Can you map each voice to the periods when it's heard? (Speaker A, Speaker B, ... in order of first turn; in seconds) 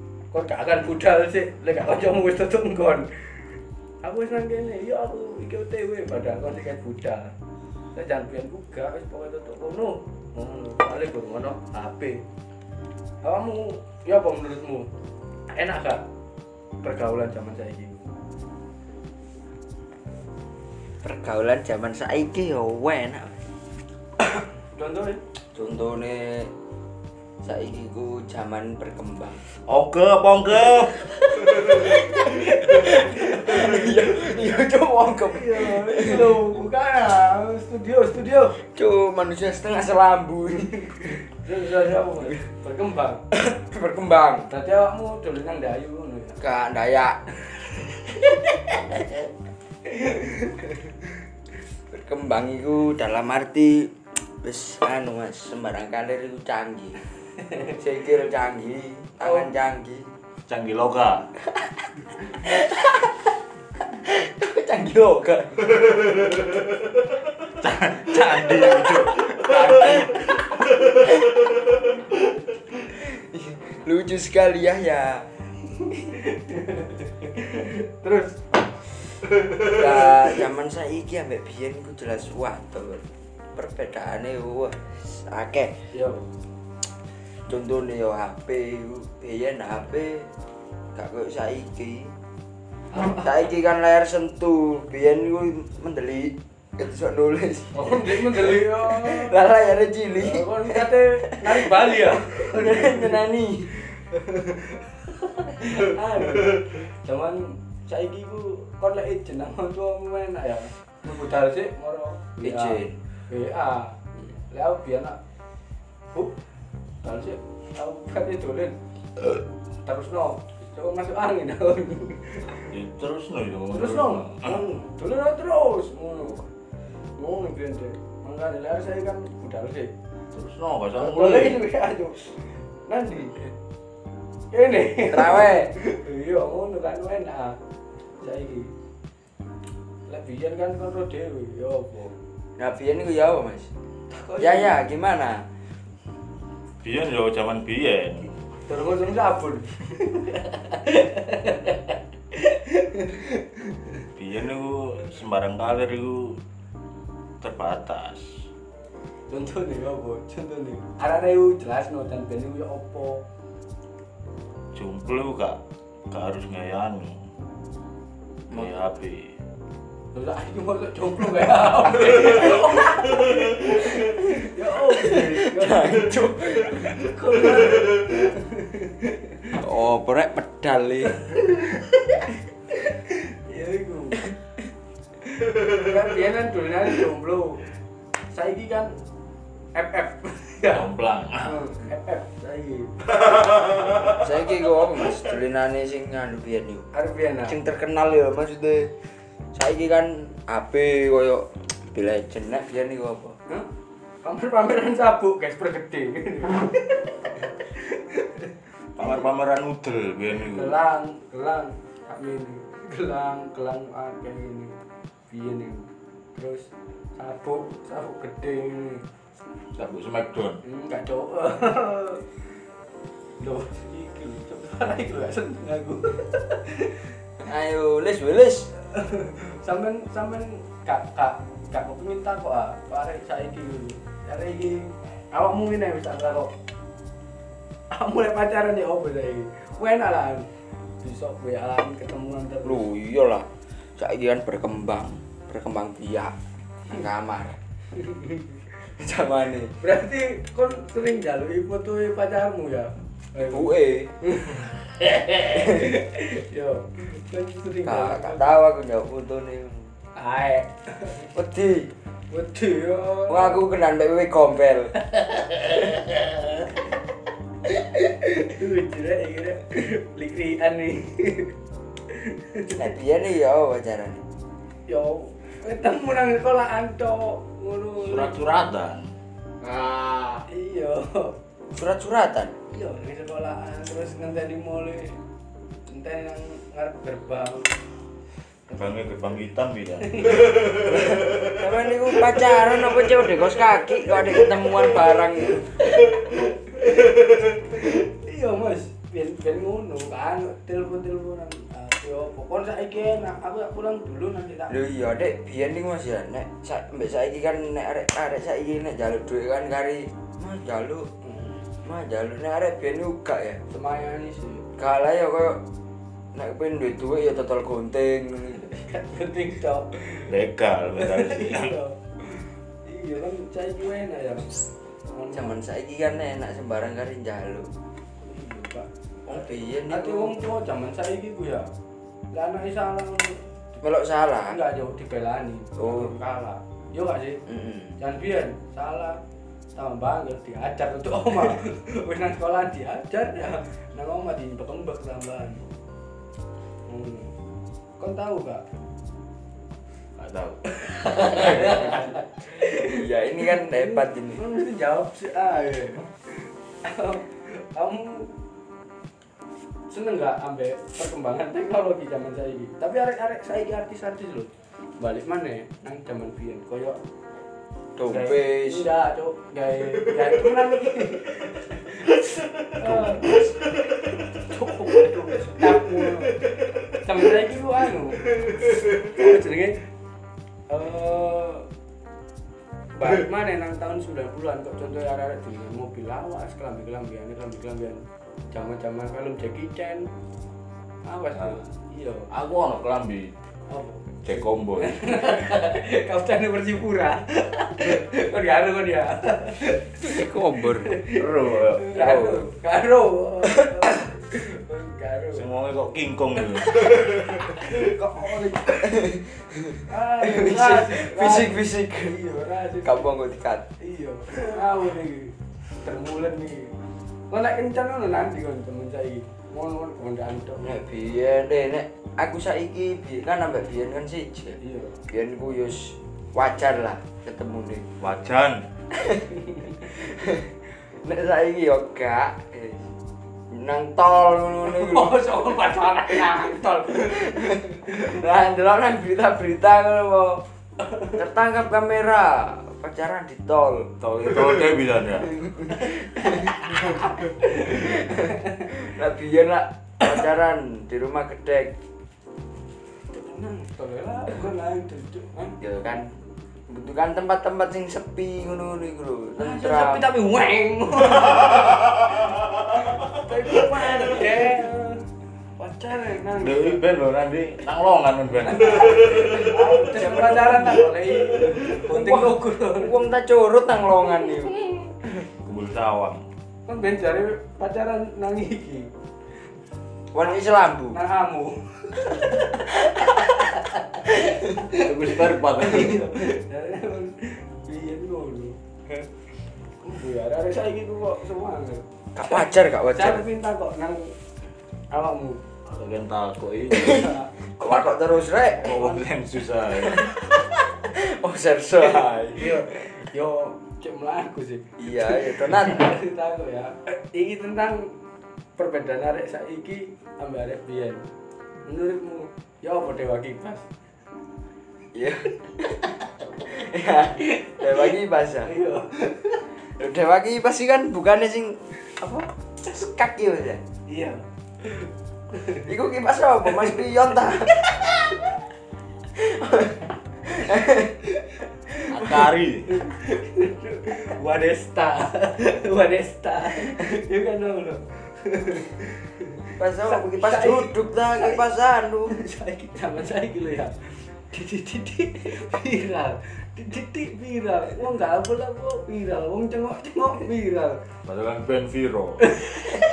Speaker A: 0.3-7.3, 7.9-12.2, 13.2-14.9, 15.5-16.0, 16.8-18.1, 24.4-25.2, 32.9-33.9, 35.3-38.6, 41.1-43.2, 44.5-46.4, 49.9-50.7, 59.2-59.5, 69.5-70.0, 76.1-78.6, 85.9-86.3, 97.7-99.4, 100.1-103.2, 103.8-104.8, 105.4-115.2, 117.0-118.8, 119.8-122.7, 123.7-126.5, 127.2-129.9, 130.9-133.5, 134.5-137.6, 138.2-138.7, 140.1-142.1, 144.1-144.8, 148.6-153.8, 159.3-163.2, 170.1-179.5, 182.7-184.3, 185.6-187.6, 188.3-188.9, 189.7-190.9, 191.4-194.2, 196.9-197.6, 204.2-209.2, 210.4-214.8, 215.3-219.1, 220.6-222.2, 223.4-227.1, 228.8-236.5, 237.9-240.5, 241.0-242.8, 247.9-248.6, 249.8-258.4, 260.1-261.2, 262.3-263.6, 265.1-266.6, 267.6-271.5, 272.1-272.8, 274.9-278.4, 280.5-281.4, 282.7-285.2, 285.9-287.8, 290.1-290.6, 296.0-304.8, 311.3-311.6, 313.7-314.6, 318.5-320.3, 320.9-324.5, 325.1-325.5, 328.2-331.7, 332.3-333.5, 334.5-337.4, 338.0-339.2, 339.7-345.6, 346.9-347.3, 348.0-348.6, 351.0-358.3, 359.9-367.0, 368.1-379.8, 380.7-381.7, 382.9-390.1, 391.0-392.3, 393.7-400.2, 400.8-405.4, 407.4-408.8, 409.9-413.1, 413.8-416.8, 417.3-420.8, 424.6-425.0, 434.7-437.6, 445.8-448.2, 453.1-455.6, 459.4-462.0, 463.0-466.8, 468.4-473.1, 476.7-478.9, 480.9-489.1, 489.8-492.4, 492.9-494.1, 494.9-495.4, 496.9-497.3, 501.9-507.9, 508.6-511.1, 511.6-513.6, 518.5-519.5, 523.9-524.9, 532.7-541.4, 542.1-550.8, 552.4-552.7
Speaker B: 21.0-23.4, 25.4-26.5, 27.4-29.4, 31.4-36.4, 38.5-41.2, 43.3-44.5, 46.4-47.2, 51.9-53.9, 54.4-57.0, 57.7-60.1, 62.2-63.1, 63.9-66.2, 69.5-70.1, 72.8-75.3, 79.6-85.8, 87.3-90.3, 90.9-92.1, 93.0-104.0, 112.4-113.0, 135.1-135.7, 142.6-143.7, 144.4-145.4, 175.0-177.1, 179.5-181.4, 194.1-196.9, 197.4-198.9, 199.5-203.4, 227.4-228.7, 242.6-246.3, 246.9-247.6, 249.0-249.7, 253.4-254.1, 257.8-259.9, 261.2-261.9, 263.3-264.9, 272.7-274.2, 279.6-280.2, 281.7-282.5, 290.9-295.7, 304.7-311.1, 311.8-313.6, 314.8-315.6, 316.3-318.6, 325.3-327.7, 329.2-330.3, 333.8-334.6, 335.8-336.1, 337.5-337.8, 352.7-354.4, 367.9-368.9, 400.0-401.0, 401.9-402.5, 408.7-412.2, 412.8-413.6, 420.6-427.8, 428.9-429.2, 429.8-432.9, 433.5-435.3, 436.9-440.4, 441.1-443.9, 445.3-446.3, 447.7-451.7, 455.6-456.1, 456.7-460.0, 463.2-464.5, 469.1-470.9, 471.4-475.3, 480.1-481.0, 492.1-493.2, 496.7-498.8, 500.8-502.8, 504.8-505.9, 514.9-515.8, 516.4-518.5, 519.6-523.6, 525.6-527.9, 529.1-530.9, 539.6-542.1
Speaker C: 29.6-31.6, 60.5-61.3, 67.5-69.9, 122.7-124.5, 130.3-131.6, 146.8-148.3, 154.2-156.4, 157.4-158.3, 164.7-165.6, 166.1-167.2, 168.5-169.3, 190.7-191.7, 208.9-210.8, 219.7-220.6, 278.0-279.1, 288.7-290.8, 320.2-321.7, 350.2-351.8, 392.3-393.3, 394.2-395.3, 401.1-402.0, 405.3-407.2, 428.0-428.6, 444.0-445.4, 466.4-469.4, 475.4-476.2, 484.7-486.1, 495.6-497.1, 498.6-500.1, 531.9-532.7, 551.0-552.3